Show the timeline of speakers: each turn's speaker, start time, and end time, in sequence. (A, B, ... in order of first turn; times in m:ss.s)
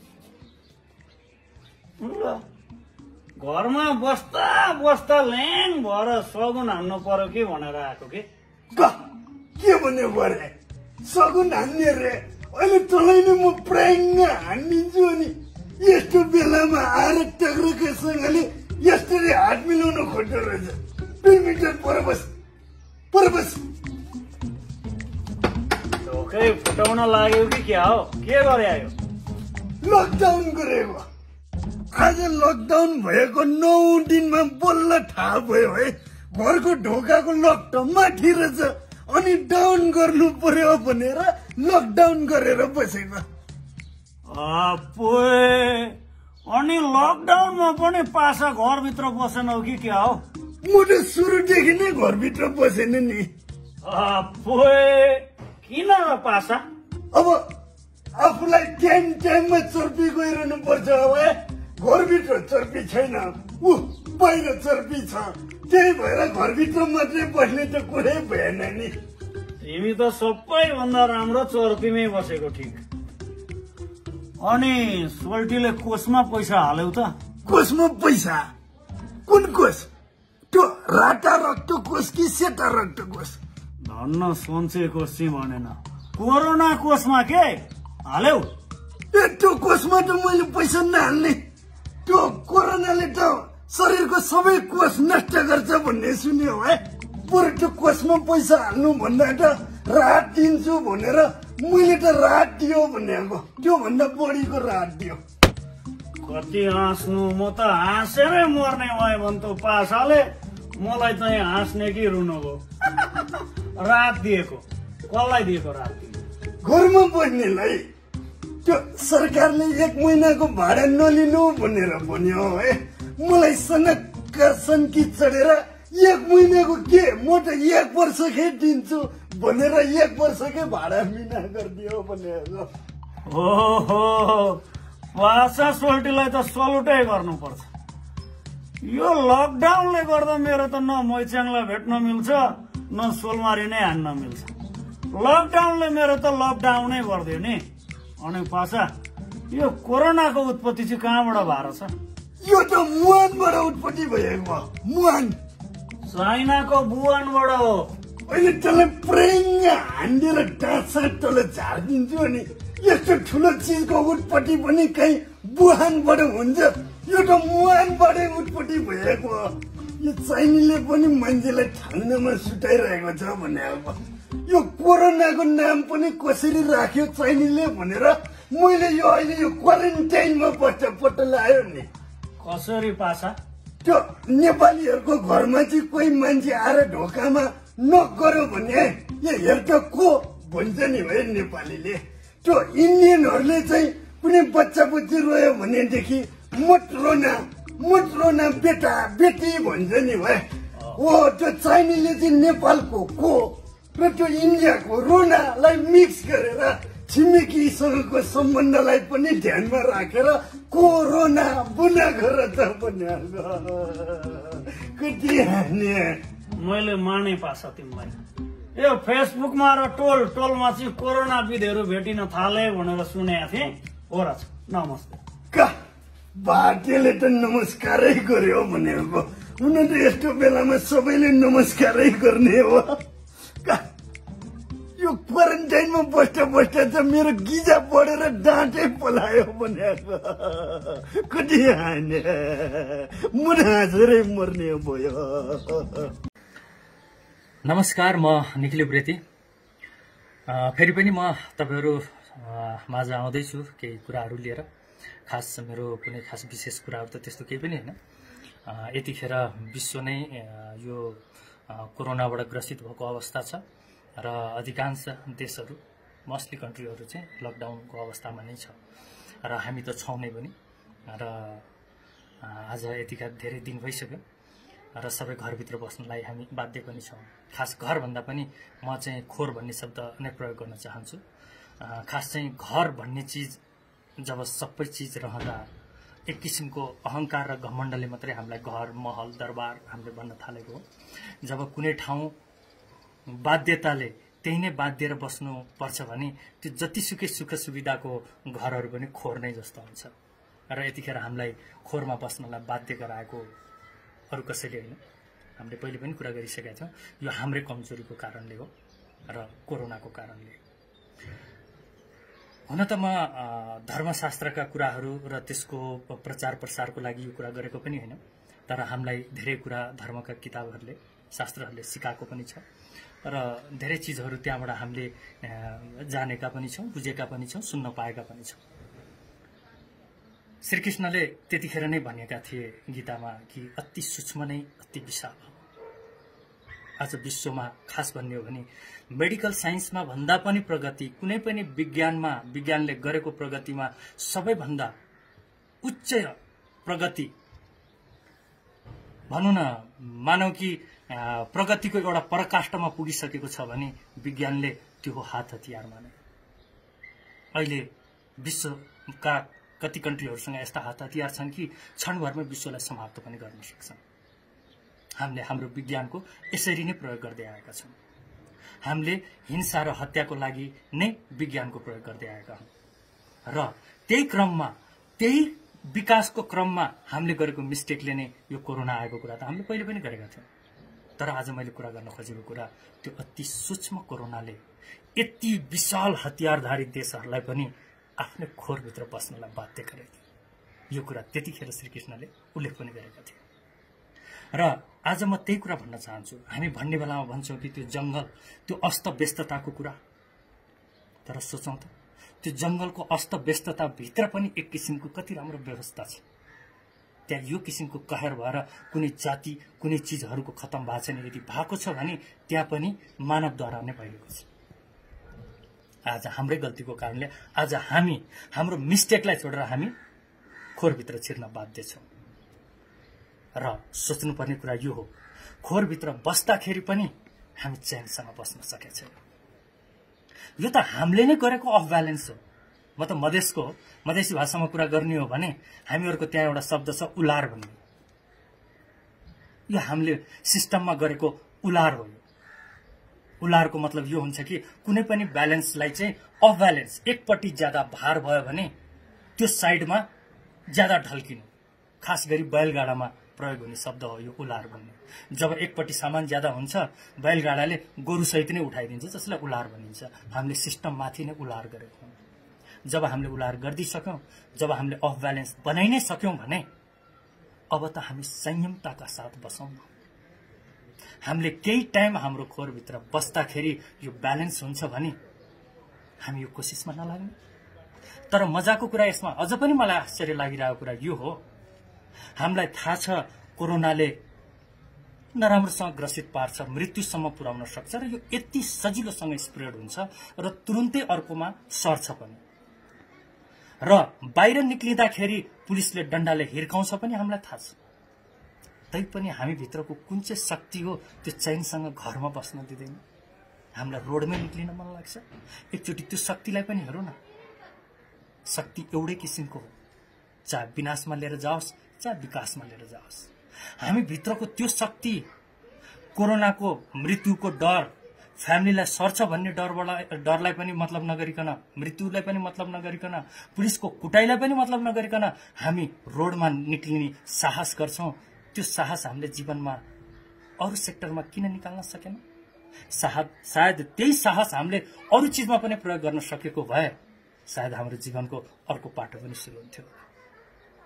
0:02.0-0:02.4 A
0:03.4-0:08.3 A
0:09.6-0:10.5 B
0:11.1-0:22.3 B
0:23.1-0:23.6 B
0:26.0-0:28.9 A
0:29.8-0:31.0 B
0:31.9-0:43.2 B
0:44.3-0:45.9 A
0:46.5-0:50.2 A
0:50.6-0:53.3 B
0:53.8-0:56.6 A
0:57.1-0:57.4 B
0:58.2-1:08.9 B
1:09.6-1:12.8 A
1:14.4-1:17.1 A
1:17.4-1:18.4 B
1:19.3-1:19.9 B
1:20.5-1:23.4 B
1:23.8-1:28.5 A
1:29.1-1:31.4 B
1:32.1-1:45.2 B
1:46.2-1:50.2 A
1:50.8-1:56.2 A
1:56.6-1:57.8 B
1:58.6-2:12.7 B
2:13.3-2:14.6 A
2:15.1-2:17.7 A
2:18.8-2:24.5 A
2:25.1-2:27.6 A
2:28.2-2:28.9 A
2:29.5-2:31.9 A
2:32.4-2:35.4 B
2:36.1-2:37.9 A
2:38.3-3:01.9 B
3:02.4-3:03.4 A
3:03.8-3:36.2 B
3:36.6-3:38.2 A
3:38.8-3:45.2 A
3:46.4-3:53.0 B
3:55.0-4:06.1 B
4:07.6-4:09.2 C
4:10.5-4:14.6 C
4:15.3-4:18.0 C
4:18.6-4:23.6 C
4:24.2-4:28.8 C
4:29.4-4:30.5 C
4:31.1-4:31.6 C
4:32.4-4:34.2 C
4:34.9-4:41.2 C
4:41.8-4:43.6 C
4:44.2-4:45.6 C
4:46.3-4:50.8 C
4:51.4-4:52.3 C
4:53.3-5:00.1 C
5:00.7-5:03.5 C
5:04.3-5:05.0 C
5:05.6-5:08.7 C
5:09.3-5:10.6 C
5:12.7-5:22.6 C
5:23.2-5:28.6 C
5:30.6-5:35.6 C
5:37.0-5:44.9 C
5:45.8-5:46.3 C
5:46.8-5:47.3 C
5:49.3-5:56.1 C
5:57.5-5:57.9 C
5:58.4-6:04.0 C
6:05.2-6:07.9 C
6:08.8-6:12.7 C
6:13.5-6:20.5 C
6:21.2-6:24.6 C
6:25.2-6:30.2 C
6:30.9-6:33.4 C
6:34.5-6:40.0 C
6:41.2-6:41.9 C
6:42.4-6:46.2 C
6:47.3-6:54.5 C
6:56.1-6:59.9 C
7:00.8-7:02.0 C
7:03.6-7:05.1 C
7:05.6-7:09.1 C
7:10.6-7:12.4 C
7:13.0-7:17.8 C
7:19.7-7:22.2 C
7:23.4-7:28.7 C
7:29.4-7:30.1 C
7:30.7-7:31.5 C
7:32.0-7:42.2 C
7:42.9-7:46.6 C
7:47.7-7:49.9 C
7:51.2-7:55.2 C
7:56.2-7:57.3 C
7:58.3-8:01.4 C
8:02.4-8:04.2 C
8:05.3-8:12.4 C
8:13.8-8:17.8 C
8:18.9-8:23.0 C
8:23.8-8:27.2 C
8:28.4-8:29.7 C
8:30.4-8:35.2 C
8:36.1-8:49.8 C
8:50.6-8:52.2 C
8:52.9-8:59.9 C